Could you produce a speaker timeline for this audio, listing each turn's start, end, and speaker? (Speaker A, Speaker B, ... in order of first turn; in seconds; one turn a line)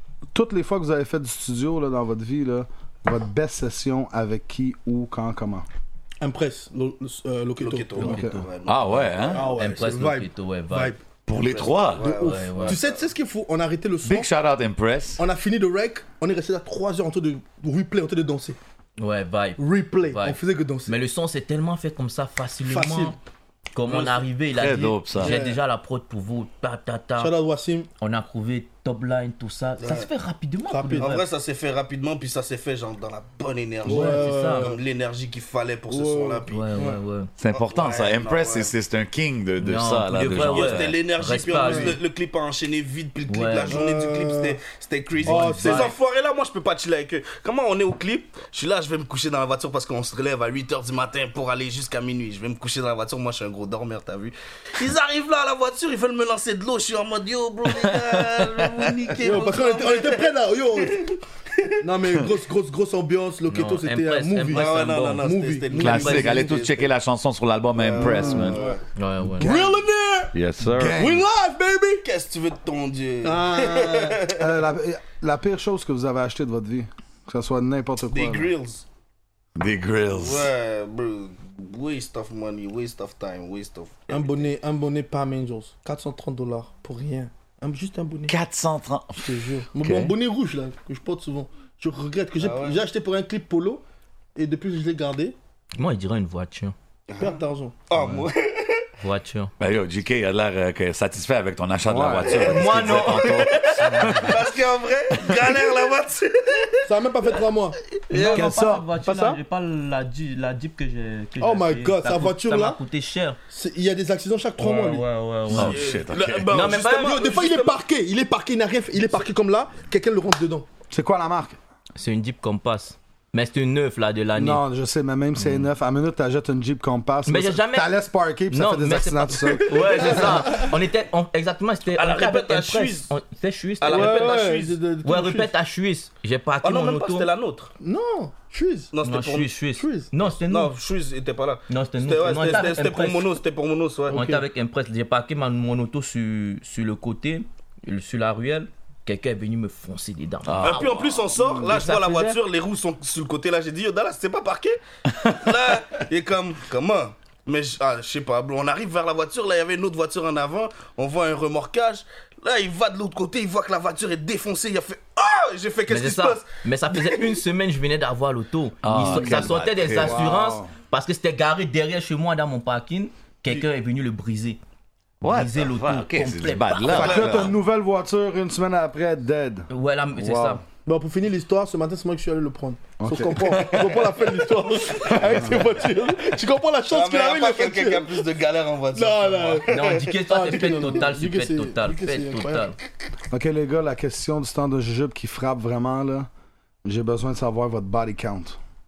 Speaker A: 0.3-5.7
Speaker B: 6.2-8.2
Speaker C: 7.6-9.6
Speaker A: 8.0-8.4
Speaker D: 8.0-10.9
Speaker E: 8.7-9.5
Speaker B: 9.3-11.0
Speaker E: 11.3-12.2
Speaker C: 11.3-13.1
Speaker D: 12.0-12.8
Speaker B: 12.6-14.3
Speaker E: 14.0-15.2
Speaker B: 15.2-18.6
Speaker D: 19.0-23.1
Speaker B: 19.6-21.0
Speaker B: 22.6-23.2
Speaker D: 23.7-27.3
Speaker E: 24.6-25.3
Speaker B: 25.1-25.6
Speaker B: 27.2-27.9
Speaker D: 28.0-31.2
Speaker C: 29.8-30.1
Speaker B: 30.7-31.1
Speaker C: 31.0-36.9
Speaker B: 33.8-34.8
Speaker D: 33.9-34.7
Speaker B: 35.9-37.0
Speaker D: 36.5-37.3
Speaker E: 37.4-40.9
Speaker C: 37.5-38.7
Speaker D: 39.6-42.0
Speaker C: 40.4-60.3
Speaker B: 41.6-42.0
Speaker D: 43.3-43.8
Speaker B: 43.7-44.6
Speaker B: 45.2-45.9
Speaker E: 45.2-45.9
Speaker D: 45.3-45.7
Speaker E: 57.7-58.9
Speaker B: 59.2-61.1
Speaker C: 61.0-61.8
Speaker B: 61.8-66.5
Speaker D: 63.5-65.2
Speaker C: 64.5-66.9
Speaker E: 65.7-68.6
Speaker D: 65.8-66.4
Speaker C: 67.7-68.8
Speaker B: 68.0-68.8
Speaker A: 68.1-68.5
Speaker D: 69.0-69.5
Speaker A: 69.3-69.8
Speaker B: 69.4-70.3
Speaker E: 70.3-71.0
Speaker A: 70.6-71.2
Speaker C: 71.0-74.5
Speaker B: 71.0-72.0
Speaker B: 73.2-74.2
Speaker A: 74.3-78.5
Speaker C: 78.1-78.8
Speaker E: 79.5-80.5
Speaker C: 80.1-84.4
Speaker B: 84.1-88.3
Speaker E: 88.3-90.1
Speaker B: 89.2-93.8
Speaker C: 92.4-92.8
Speaker B: 94.3-95.3
Speaker D: 95.8-96.7
Speaker C: 97.1-98.9
Speaker B: 97.2-97.8
Speaker D: 98.0-98.2
Speaker D: 99.0-99.5
Speaker E: 99.6-104.4
Speaker A: 101.9-102.5
Speaker C: 102.3-107.3
Speaker D: 102.5-104.3
Speaker E: 105.1-105.5
Speaker B: 106.8-107.8
Speaker C: 108.1-108.5
Speaker D: 108.1-113.4
Speaker A: 108.3-108.9
Speaker B: 109.0-109.4
Speaker B: 111.4-112.8
Speaker B: 113.5-115.0
Speaker D: 114.6-115.8
Speaker E: 115.5-116.7
Speaker C: 115.5-117.8
Speaker D: 116.5-117.2
Speaker B: 116.8-120.7
Speaker A: 120.9-121.6
Speaker D: 122.0-124.6
Speaker A: 124.3-130.4
Speaker D: 127.2-134.4
Speaker C: 131.9-133.1
Speaker C: 133.8-134.8
Speaker B: 133.8-135.5
Speaker D: 135.0-137.3
Speaker C: 136.6-137.7
Speaker B: 137.8-138.9
Speaker C: 138.9-139.6
Speaker D: 139.0-140.7
Speaker B: 139.7-140.1
Speaker C: 140.3-144.2
Speaker D: 141.7-143.3
Speaker B: 144.1-144.4
Speaker D: 144.1-152.4
Speaker E: 150.4-151.2
Speaker C: 150.6-167.4
Speaker E: 155.2-155.5
Speaker D: 165.9-174.6
Speaker E: 168.8-170.3
Speaker A: 169.0-170.7
Speaker E: 175.2-177.5
Speaker D: 175.2-177.0
Speaker A: 176.8-180.6
Speaker C: 176.9-177.5
Speaker D: 179.7-180.6
Speaker B: 180.8-188.2
Speaker A: 183.0-183.8
Speaker C: 186.9-190.9
Speaker B: 188.9-192.7
Speaker D: 189.7-192.8
Speaker A: 193.3-196.3
Speaker A: 196.8-198.6